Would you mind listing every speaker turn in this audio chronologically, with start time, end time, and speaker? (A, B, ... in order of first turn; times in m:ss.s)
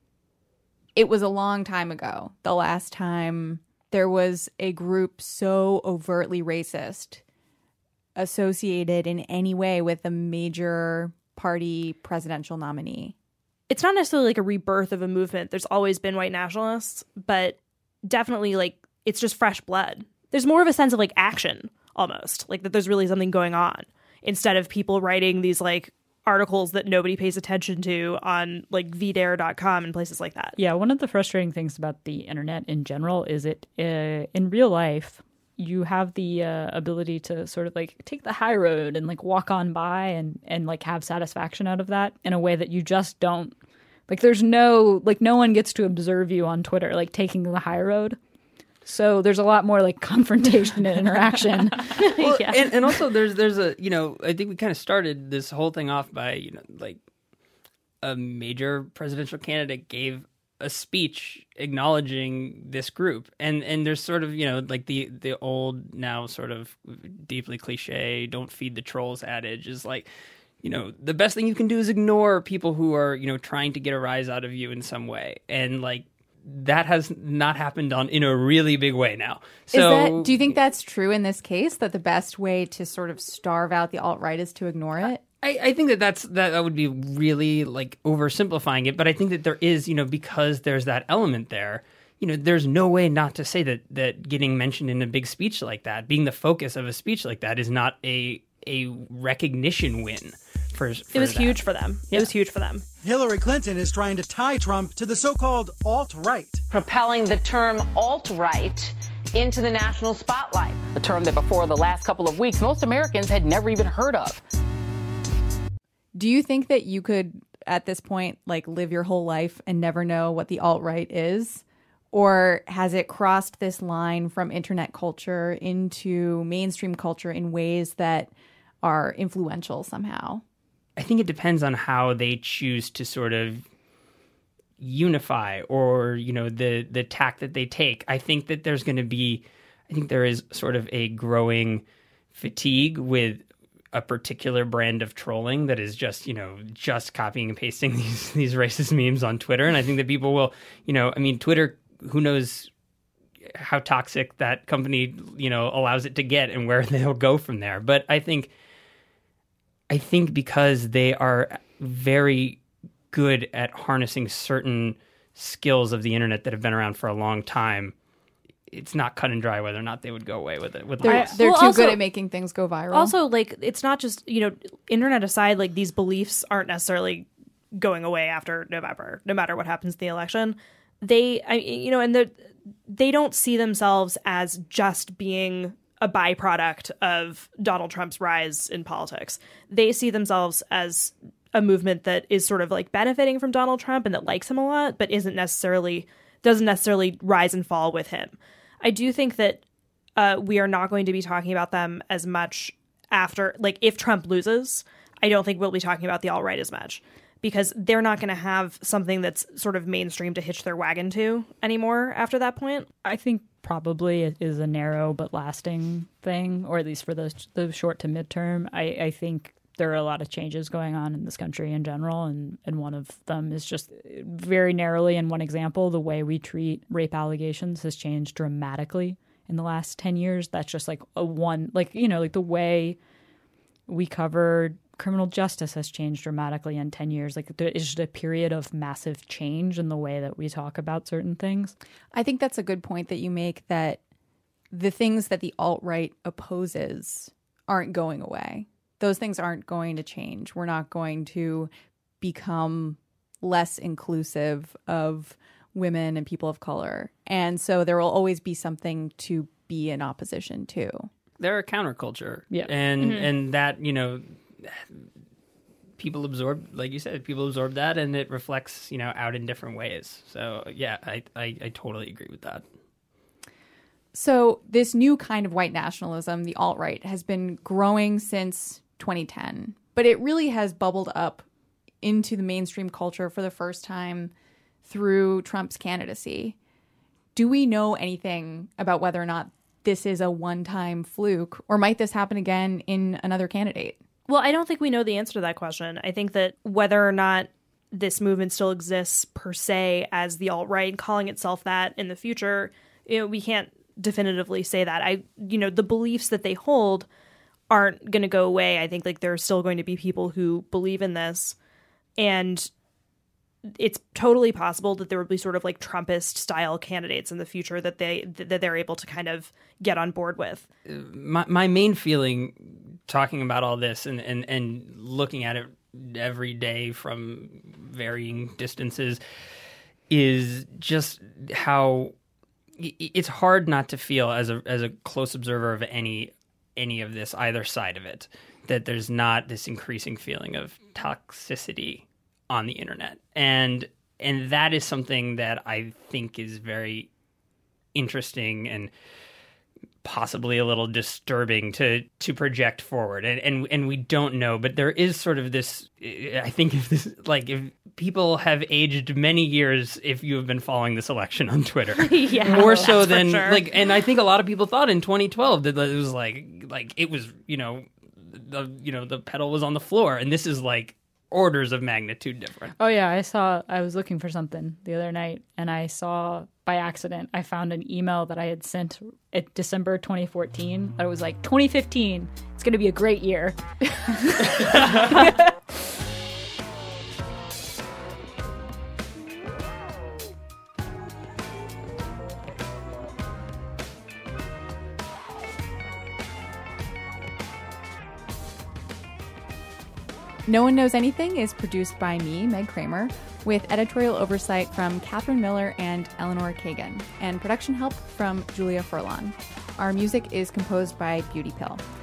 0:01.0-0:07.2 A
0:08.2-0:13.2 A
0:13.7-0:30.6 B
0:30.6-0:43.6 C
0:44.1-0:48.2 C
0:48.9-0:52.7 C
0:52.0-0:57.0 D
0:58.0-1:10.1 D
1:10.6-1:20.5 D
1:19.7-1:25.2 A
1:25.4-1:42.3 D
1:41.1-1:42.8 B
1:43.0-1:46.6 E
1:46.7-1:54.4 F
1:56.2-2:10.4 A
2:11.0-2:13.6 D
2:14.8-2:32.7 D
2:33.5-2:38.5 D
2:39.9-2:42.6 D
2:43.1-2:47.9 D
2:48.7-2:51.4 D
2:51.0-2:53.1 A
2:51.0-2:52.0 B
2:52.9-3:19.6 B
3:20.2-3:32.9 B
3:33.0-3:53.0 C
3:53.9-4:01.7 C
4:02.1-4:04.0 A
4:04.7-4:11.7 A
4:12.2-4:21.1 A
4:21.4-4:25.1 D
4:22.5-4:23.3 C
4:26.0-4:32.6 D
4:34.1-4:41.5 A
4:42.0-4:44.3 A
4:44.8-4:46.6 A
4:47.4-4:54.0 A
4:54.3-5:07.1 B
5:07.7-5:11.6 B
5:12.2-5:12.7 B
5:13.7-5:20.7 B
5:20.9-5:29.2 D
5:30.1-5:32.1 D
5:32.8-5:47.1 D
5:48.0-5:48.9 D
5:50.0-6:12.7 D
6:02.0-6:03.6 B
6:02.5-6:02.8 C
6:12.8-6:25.5 C
6:40.5-6:51.8 A